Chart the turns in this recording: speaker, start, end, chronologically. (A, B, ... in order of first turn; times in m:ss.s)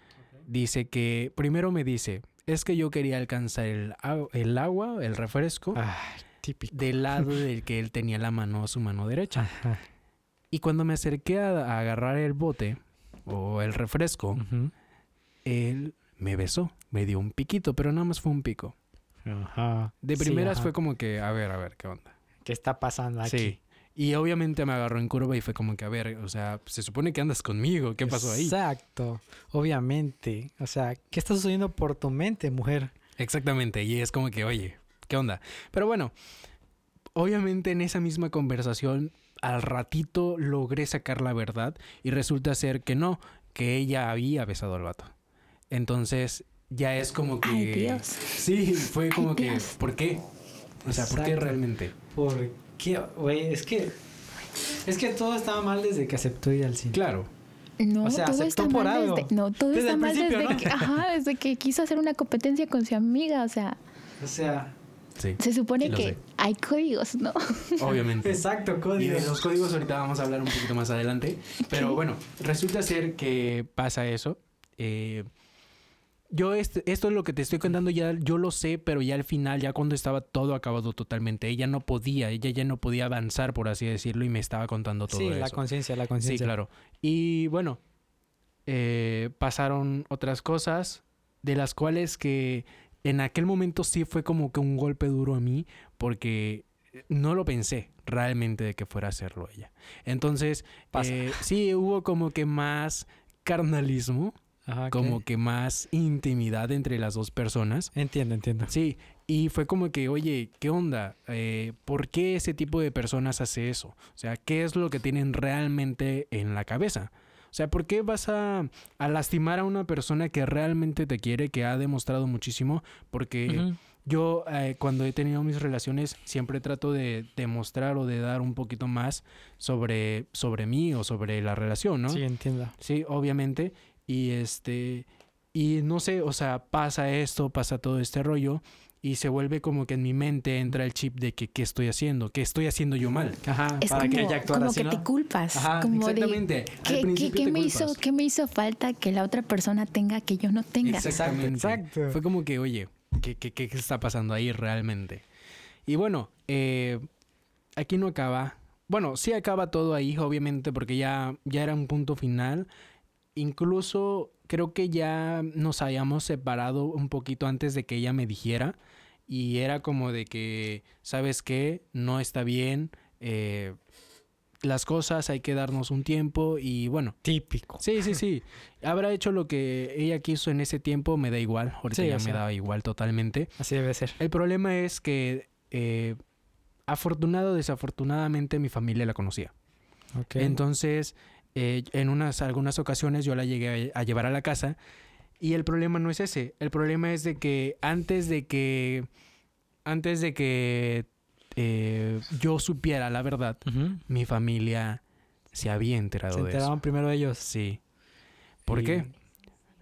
0:00.5-0:05.8 A
0:05.8-0:07.3 B
0:06.7-0:09.5 A
0:09.4-0:09.8 B
0:10.5-0:14.4 A
0:14.4-0:14.7 B
0:15.4-0:18.8 A
0:19.3-0:20.7 B
0:20.0-0:22.2 A
0:22.4-0:23.6 B
0:23.2-0:28.6 A
0:28.0-0:32.9 B
0:33.2-0:36.2 A
0:37.2-0:45.1 A
0:45.7-0:50.2 A
0:47.4-0:48.3 C
0:49.1-0:49.7 C
0:50.8-0:51.6 B
0:50.8-0:51.9 A
0:52.1-0:54.0 B
0:54.8-0:57.0 B
0:56.9-0:57.3 A
0:57.8-1:03.8 C
0:58.0-1:00.9 B
1:04.2-1:04.7 B
1:05.2-1:06.2 A
1:05.4-1:08.0 C
1:07.8-1:08.4 A
1:08.2-1:09.4 B
1:09.0-1:15.3 A
1:11.7-1:12.0 C
1:16.3-1:25.6 A
1:25.1-1:26.5 B
1:26.2-1:27.8 A
1:28.7-1:44.4 A
1:40.9-1:41.4 B
1:44.7-1:45.2 B
1:44.9-1:47.9 A
1:47.9-1:48.7 B
1:48.7-2:12.2 A
2:03.5-2:03.8 B
2:12.1-2:12.8 B
2:12.8-2:23.4 A
2:23.4-2:25.9 B
2:23.8-2:31.2 C
2:25.8-2:28.0 A
2:30.8-2:35.2 A
2:30.9-2:32.2 B
2:35.9-2:37.0 A
2:37.8-2:42.7 A
2:43.4-2:48.8 A
2:49.3-2:53.8 A
2:54.6-2:57.2 A
2:57.2-2:58.2 B
2:57.8-3:03.5 A
3:01.9-3:02.4 B
3:03.6-3:04.2 B
3:04.2-3:06.2 A
3:06.9-3:09.5 A
3:10.2-3:10.6 B
3:10.4-3:14.8 A
3:15.4-3:19.1 A
3:19.8-3:25.0 A
3:23.7-3:24.0 B
3:25.5-3:26.7 A
3:26.3-3:27.5 B
3:27.4-3:27.8 A
3:28.7-3:29.1 A
3:28.7-3:29.1 B